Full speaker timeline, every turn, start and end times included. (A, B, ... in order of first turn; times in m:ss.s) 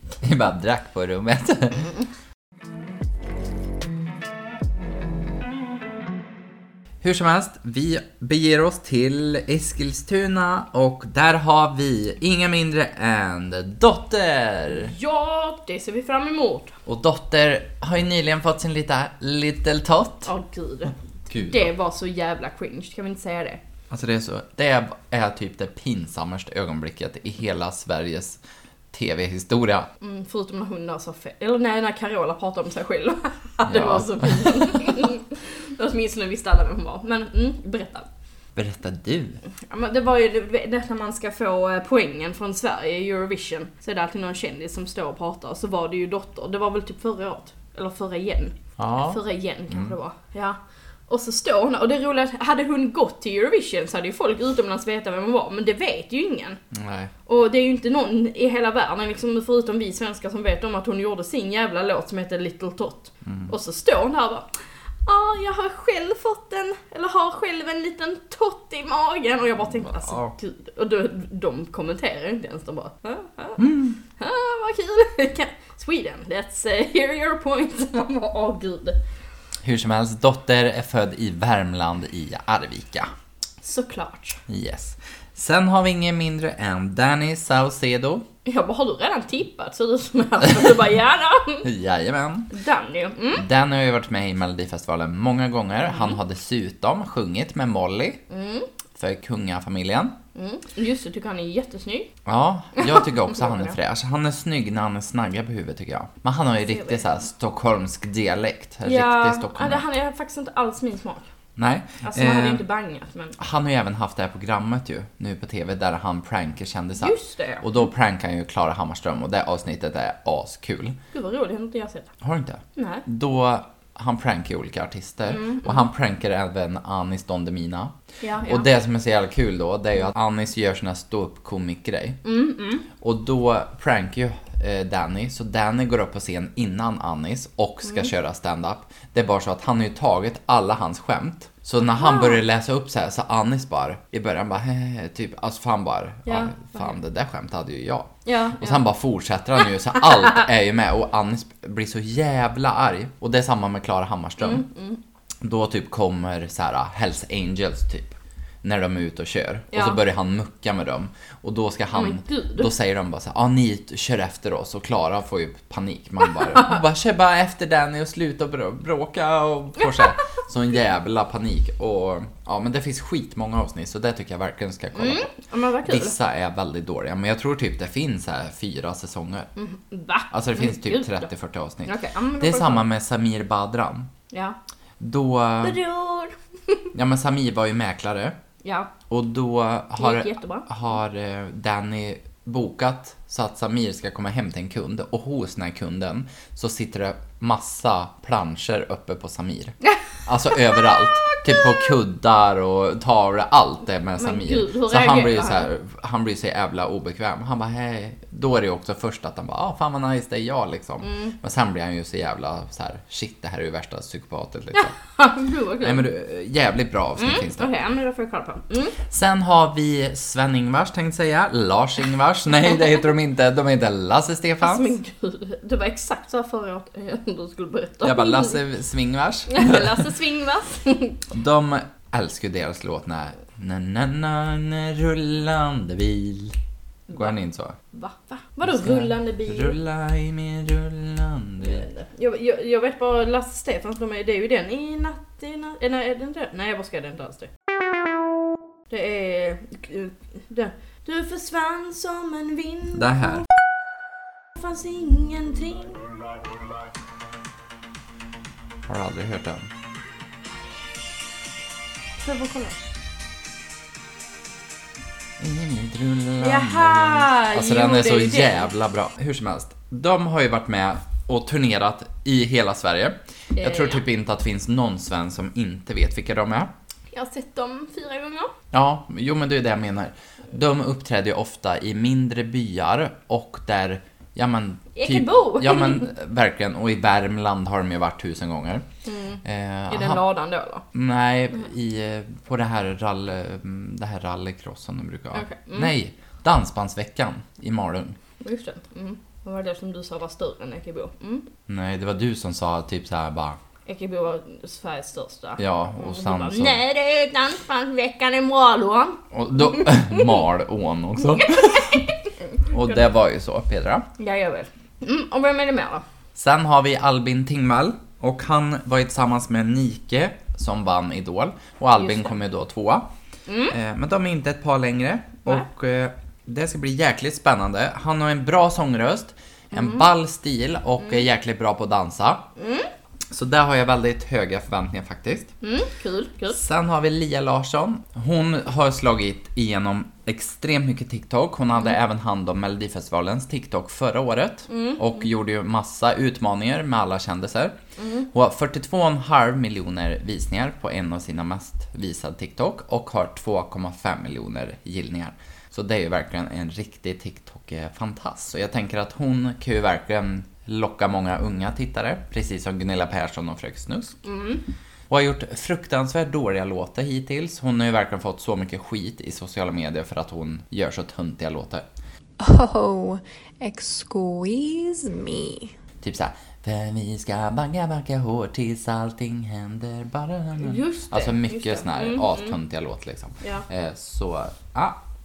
0:00.2-0:01.9 A
0:07.0-0:14.9 A
0:14.7-0:16.8 B
0:16.9-0:20.3 A
0:20.3-0:23.6 B
0:21.3-0:21.7 A
0:23.9-0:28.4 A
0:28.9-0:29.9 A
0:30.0-0:38.1 B
0:33.7-0:34.9 A
0:38.6-0:39.4 A
0:39.7-0:50.6 B
0:48.8-0:50.0 A
0:51.1-0:56.6 B
0:56.7-0:57.1 A
0:57.3-1:04.5 B
1:03.2-1:03.5 A
1:05.0-1:19.0 B
1:09.8-1:10.3 A
1:13.6-1:14.0 A
1:19.6-1:23.1 A
1:23.6-1:24.4 B
1:24.5-1:28.2 A
1:28.4-1:31.7 B
1:31.6-1:32.5 A
1:32.5-1:33.5 B
1:33.3-1:38.2 A
1:35.9-1:36.2 B
1:38.3-1:38.7 B
1:39.0-1:40.2 A
1:40.4-1:42.1 B
1:42.2-1:49.8 A
1:42.8-1:43.8 B
1:46.7-1:47.0 B
1:48.8-1:51.3 B
1:51.6-1:52.6 A
1:52.0-1:53.4 B
1:53.4-2:01.0 A
1:57.0-1:57.7 B
2:01.1-2:02.1 B
2:02.2-2:12.2 A
2:02.8-2:03.0 B
2:05.3-2:05.9 B
2:08.2-2:08.7 B
2:12.2-2:12.9 B
2:13.0-2:34.6 A
2:17.8-2:18.1 B
2:21.8-2:22.4 B
2:26.3-2:26.9 B
2:28.2-2:28.9 B
2:34.4-2:35.0 B
2:35.4-2:55.3 A
2:39.7-2:40.0 B
2:41.9-2:42.7 B
2:46.5-2:46.8 B
2:49.8-2:50.2 B
2:55.0-2:56.2 B
2:55.9-2:59.5 A
2:59.6-3:01.3 B
3:00.3-3:04.1 A
3:01.8-3:02.9 B
3:04.3-3:04.6 B
3:05.0-3:05.8 A
3:05.6-3:06.9 B
3:06.9-3:08.4 A
3:08.6-3:08.9 B
3:09.1-3:34.9 A
3:10.0-3:10.7 B
3:20.7-3:21.8 B
3:24.2-3:25.7 B
3:31.0-3:31.4 B
3:34.8-3:36.1 B
3:35.8-3:37.7 A
3:37.2-3:39.0 B
3:39.0-3:45.0 A
3:44.6-3:48.6 B
3:48.0-3:50.1 A
3:49.5-3:51.2 B
3:51.3-3:56.6 A
3:57.1-3:57.4 B
3:57.1-3:57.8 A
3:57.9-3:59.8 B
3:58.6-4:01.9 A
4:01.6-4:07.5 B
4:08.9-4:13.4 B
4:13.0-4:13.4 A
4:14.6-4:16.0 B
4:18.9-4:19.7 A
4:22.2-4:22.8 B
4:25.4-4:36.7 A
4:26.4-4:28.7 B
4:33.6-4:34.0 B
4:37.1-4:38.5 B
4:38.7-4:48.8 A
4:45.0-4:46.1 B
4:49.0-4:50.8 B
4:49.4-4:50.2 A
4:50.9-4:58.2 A
4:55.3-4:55.9 B
4:58.4-5:01.5 B
5:01.7-5:03.6 A
5:03.9-5:10.3 B
5:05.6-5:06.8 A
5:09.3-5:12.1 A
5:11.5-5:12.1 B
5:12.7-5:14.1 A
5:14.2-5:16.0 B
5:16.4-5:23.1 A
5:22.0-5:22.4 B
5:23.5-5:23.8 B
5:23.7-5:32.4 A
5:29.7-5:30.1 B
5:32.6-5:32.9 B
5:33.3-5:35.5 A
5:35.6-5:36.6 B
5:36.5-5:47.8 A
5:44.7-5:45.3 B
5:48.0-5:48.3 B
5:48.3-6:04.2 A
6:04.2-6:04.6 B
6:05.1-6:11.8 A
6:12.4-6:15.7 C
6:16.0-6:25.0 A
6:20.6-6:22.6 B
6:23.4-6:23.7 B